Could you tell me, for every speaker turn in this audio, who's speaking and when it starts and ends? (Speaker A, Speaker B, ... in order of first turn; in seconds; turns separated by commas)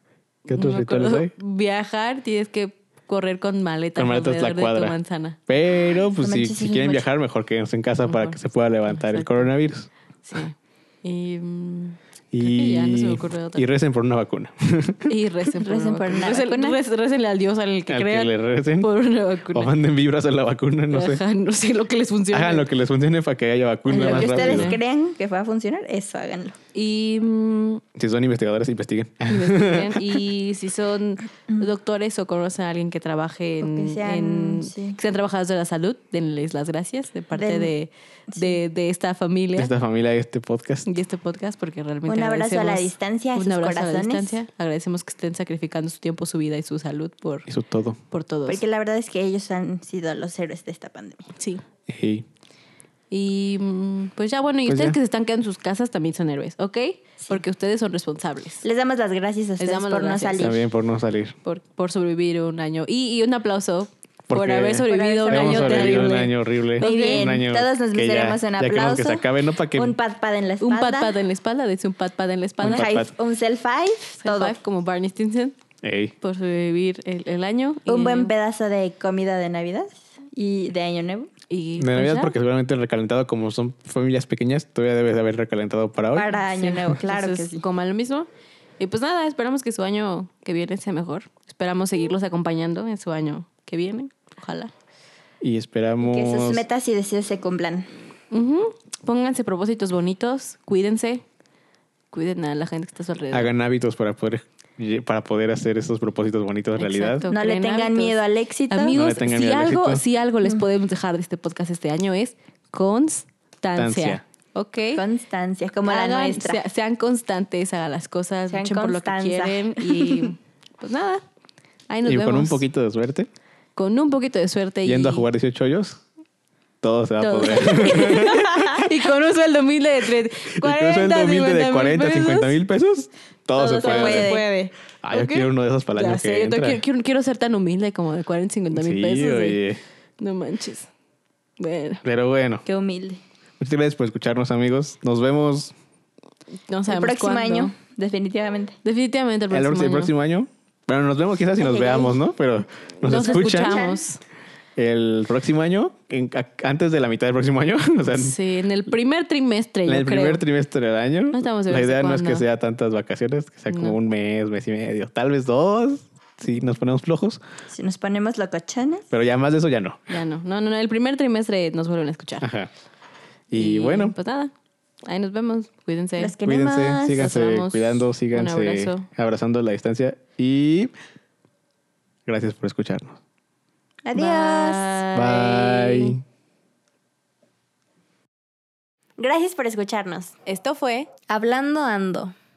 Speaker A: 0.5-5.4, Speaker B: 0.5-1.3, Speaker B: 4.0-5.0, Speaker B: 5.5-9.9, Speaker C: 6.2-7.1, Speaker A: 8.1-9.5, Speaker A: 10.2-13.7, Speaker B: 12.3-15.1, Speaker A: 15.1-19.7, Speaker C: 15.6-16.8, Speaker B: 17.9-18.9, Speaker B: 19.5-21.2, Speaker A: 20.9-22.7, Speaker B: 22.3-24.8, Speaker A: 23.9-24.8, Speaker C: 23.9-26.6, Speaker A: 26.7-27.8, Speaker B: 28.0-30.2, Speaker A: 29.3-39.7, Speaker C: 33.6-35.0, Speaker C: 37.4-37.7, Speaker C: 38.3-38.6, Speaker B: 39.6-40.9, Speaker A: 40.9-47.5, Speaker C: 42.1-44.4, Speaker B: 47.5-48.0, Speaker A: 48.1-48.6, Speaker C: 48.5-51.3, Speaker A: 51.4-51.6, Speaker B: 51.9-52.3, Speaker A: 53.1-58.6, Speaker B: 54.7-55.0, Speaker C: 58.6-60.6, Speaker A: 59.6-60.6, Speaker B: 60.4-61.4, Speaker A: 61.5-67.4, Speaker B: 64.3-70.0, Speaker C: 64.8-66.3, Speaker C: 66.8-71.1, Speaker A: 70.6-72.9, Speaker B: 72.6-73.1, Speaker C: 72.6-74.5, Speaker A: 74.2-75.6, Speaker B: 75.8-76.1, Speaker A: 76.2-78.3, Speaker C: 77.9-81.3, Speaker A: 81.5-82.4, Speaker B: 81.8-86.4, Speaker C: 86.1-87.6, Speaker A: 86.5-88.3, Speaker A: 88.8-94.7, Speaker B: 95.4-96.6, Speaker C: 96.0-97.9, Speaker A: 98.3-101.2, Speaker A: 102.1-103.5, Speaker B: 103.3-107.3, Speaker A: 106.8-115.0, Speaker C: 107.3-109.0, Speaker B: 108.9-110.0, Speaker B: 113.8-114.2, Speaker C: 115.0-116.6, Speaker A: 115.8-121.2, Speaker C: 118.5-120.3, Speaker A: 121.9-122.6, Speaker B: 122.1-123.3, Speaker A: 123.8-125.3, Speaker B: 124.8-126.0, Speaker B: 126.8-128.9, Speaker A: 127.2-132.6, Speaker C: 128.5-128.9, Speaker B: 130.6-134.3, Speaker A: 133.6-139.6, Speaker C: 133.6-134.7, Speaker B: 135.0-136.8, Speaker B: 138.7-139.8, Speaker A: 140.2-140.9, Speaker A: 141.6-142.0, Speaker B: 142.0-142.7, Speaker C: 142.7-143.2, Speaker B: 143.6-145.7, Speaker A: 146.7-147.7, Speaker C: 146.9-148.8, Speaker A: 148.8-150.1, Speaker B: 149.5-153.8, Speaker C: 151.6-152.2, Speaker A: 153.0-154.2, Speaker C: 153.1-154.1, Speaker B: 154.8-158.4, Speaker A: 158.1-160.4, Speaker B: 159.9-167.4, Speaker A: 161.3-162.4, Speaker A: 163.7-164.0, Speaker C: 167.7-169.1, Speaker B: 169.1-170.1, Speaker A: 170.1-172.5, Speaker B: 172.4-172.7, Speaker B: 173.5-174.1, Speaker A: 173.5-174.5, Speaker A: 175.1-176.4, Speaker C: 176.2-177.3, Speaker B: 176.4-180.9, Speaker A: 177.2-179.1, Speaker B: 182.3-183.2, Speaker C: 184.1-185.0, Speaker A: 184.2-186.2, Speaker B: 185.1-186.2, Speaker C: 189.2-190.4, Speaker A: 190.5-191.1, Speaker C: 191.3-192.3